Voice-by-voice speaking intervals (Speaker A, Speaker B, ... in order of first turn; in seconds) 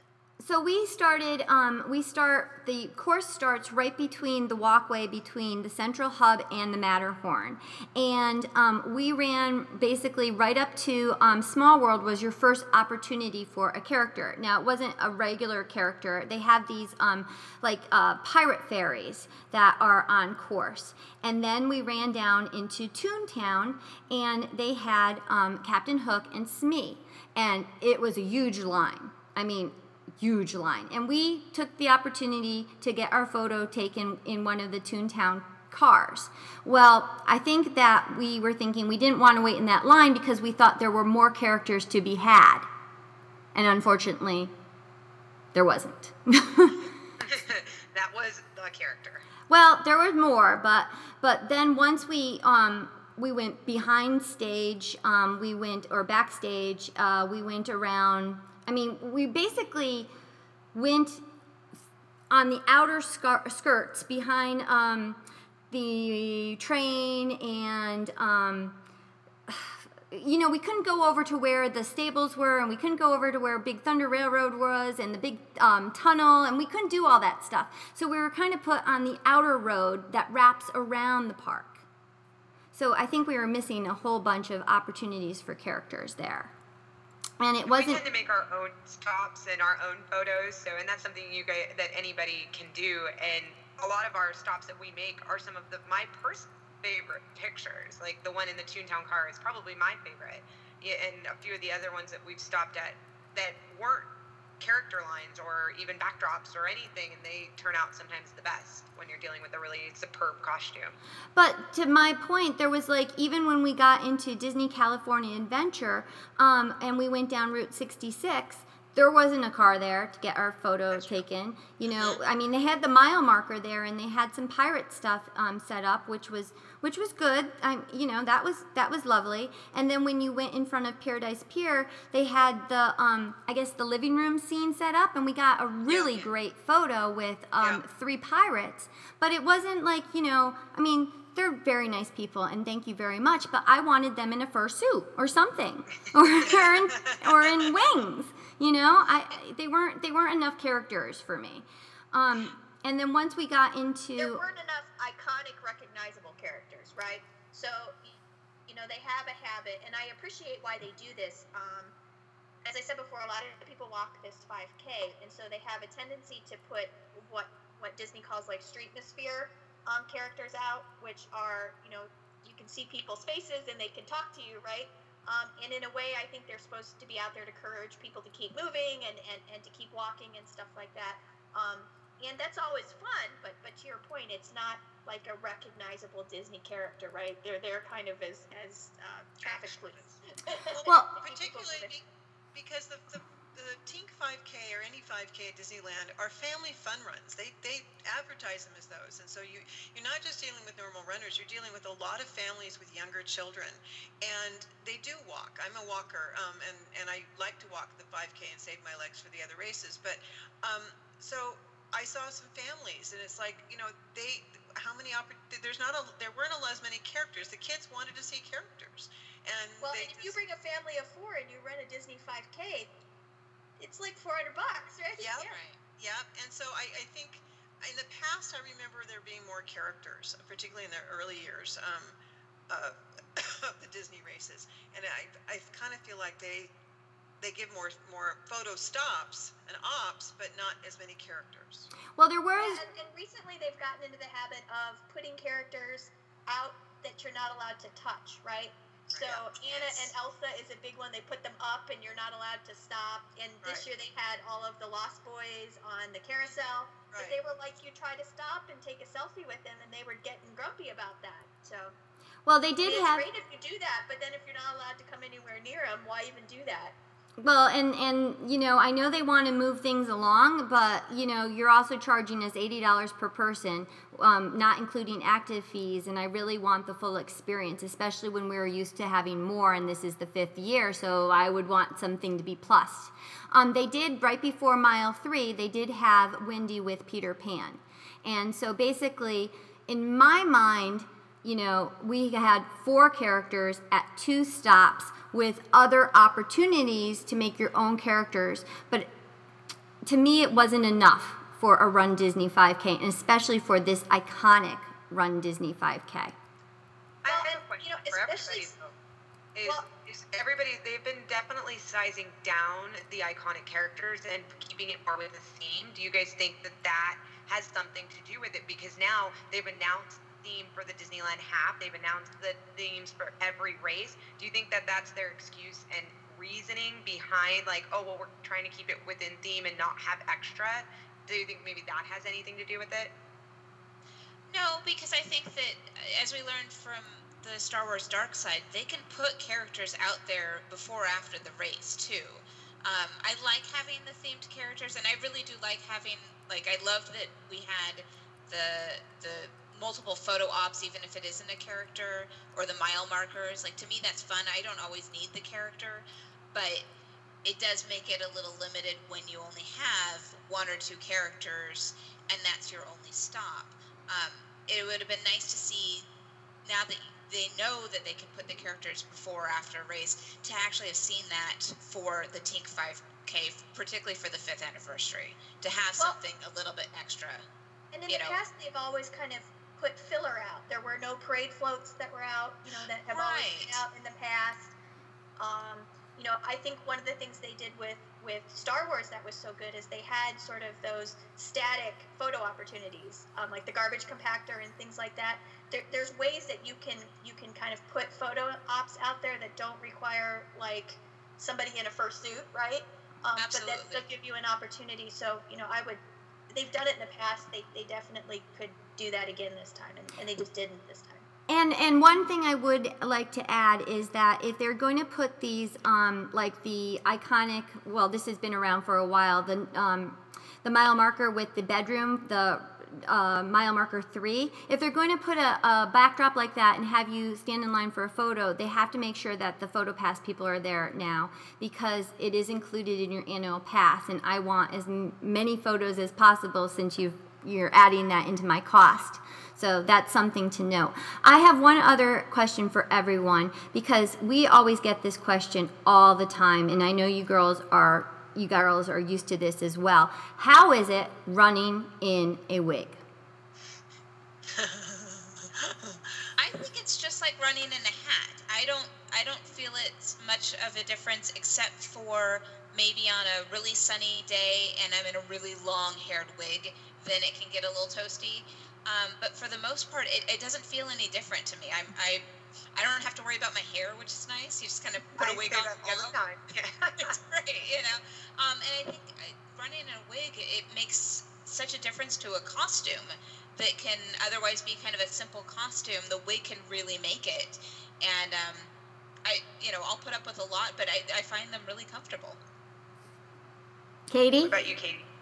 Speaker A: 0.4-42.7, 43.5-44.5, 45.5-46.9, 49.5-60.1, 60.7-61.2, 62.3-65.2, 65.7-68.8, 69.5-81.8, 82.7-86.5, 87.4-88.0, 111.3-154.4, 242.2-242.8, 262.4-263.3, 267.4-299.1, 300.0-306.3, 411.5-453.0, 494.1-494.6
Speaker B: 47.2-49.2, 87.7-104.1, 104.6-111.0, 249.1-249.4, 307.2-308.9, 309.6-333.1, 475.2-477.2, 494.4-495.1
Speaker C: 135.9-136.3, 146.4-147.7, 189.4-190.1, 190.7-220.4, 225.2-232.2, 232.7-236.7, 237.4-241.9, 257.1-257.4, 454.5-456.3
Speaker D: 154.2-161.9, 162.6-191.9, 219.8-222.9, 223.8-225.6, 242.6-261.9, 262.8-267.0, 307.3-308.7, 377.9-384.7, 385.4-411.2
Speaker E: 225.4-225.8, 249.6-250.1, 334.5-356.9, 357.4-366.1, 366.6-377.4, 378.1-378.4, 383.1-383.8, 403.4-404.0, 456.4-476.2, 477.0-488.7, 489.2-492.4